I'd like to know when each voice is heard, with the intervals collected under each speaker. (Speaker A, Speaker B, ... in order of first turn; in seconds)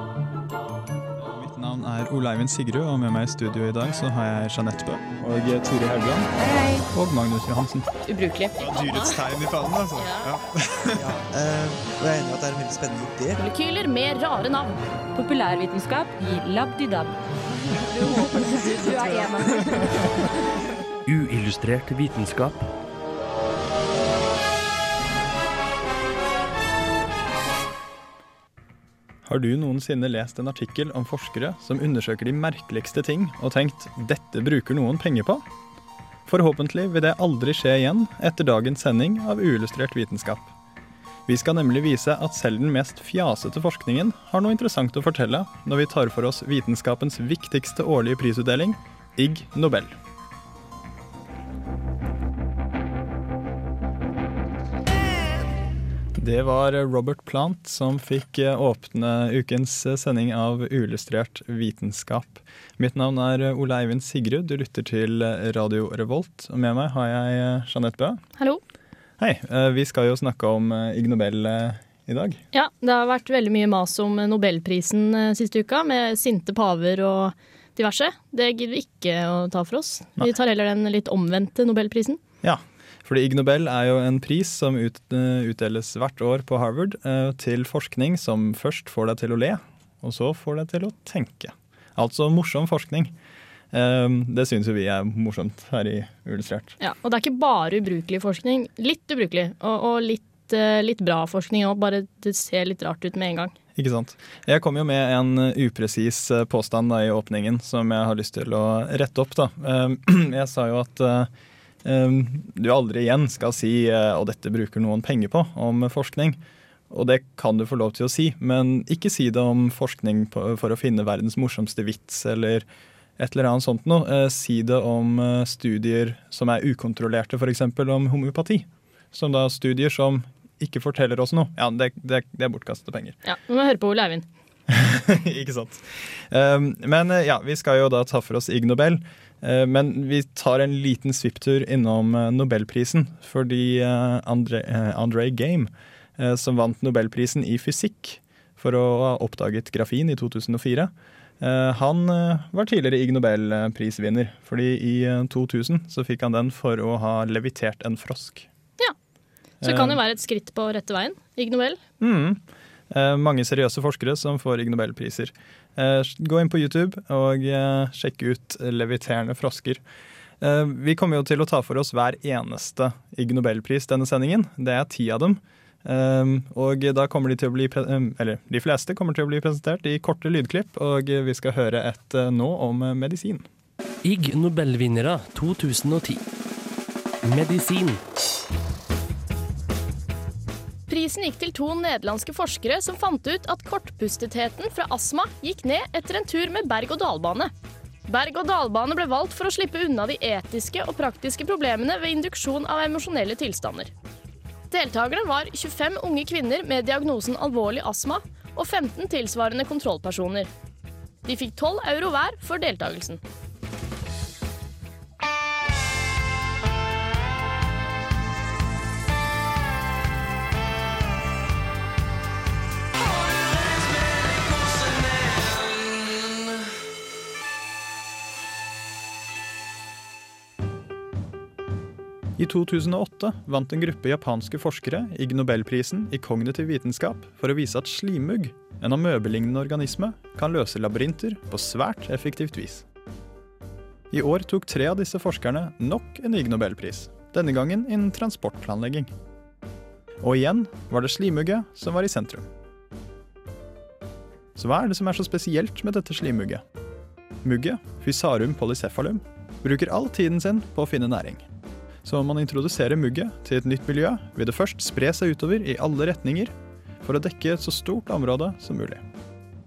Speaker A: 1.2-6.3, 6.9-7.9, 8.6-11.2, 29.2-35.5, 36.3-40.5, 41.3-50.0, 56.2-68.2, 69.2-72.4, 82.4-93.1, 93.7-96.8, 103.8-111.3, 111.8-122.7, 123.2-133.2, 134.7-158.5, 159.6-160.0, 162.0-169.8, 170.4-183.5, 232.4-242.9, 244.1-249.1, 250.2-252.5, 254.6-256.6, 257.4-261.5, 262.0-269.0
Speaker B: 6.4-6.8, 8.1-8.5, 15.2-17.1, 17.9-20.2
Speaker C: 8.6-9.0, 10.0-10.3, 13.4-14.8, 72.5-82.2, 96.8-103.5, 133.2-134.3, 159.6-161.8, 190.9-197.5, 198.1-203.9, 204.7-210.5, 211.2-213.2
Speaker D: 10.9-13.4
Speaker E: 21.1-22.7, 184.0-186.2, 187.2-188.0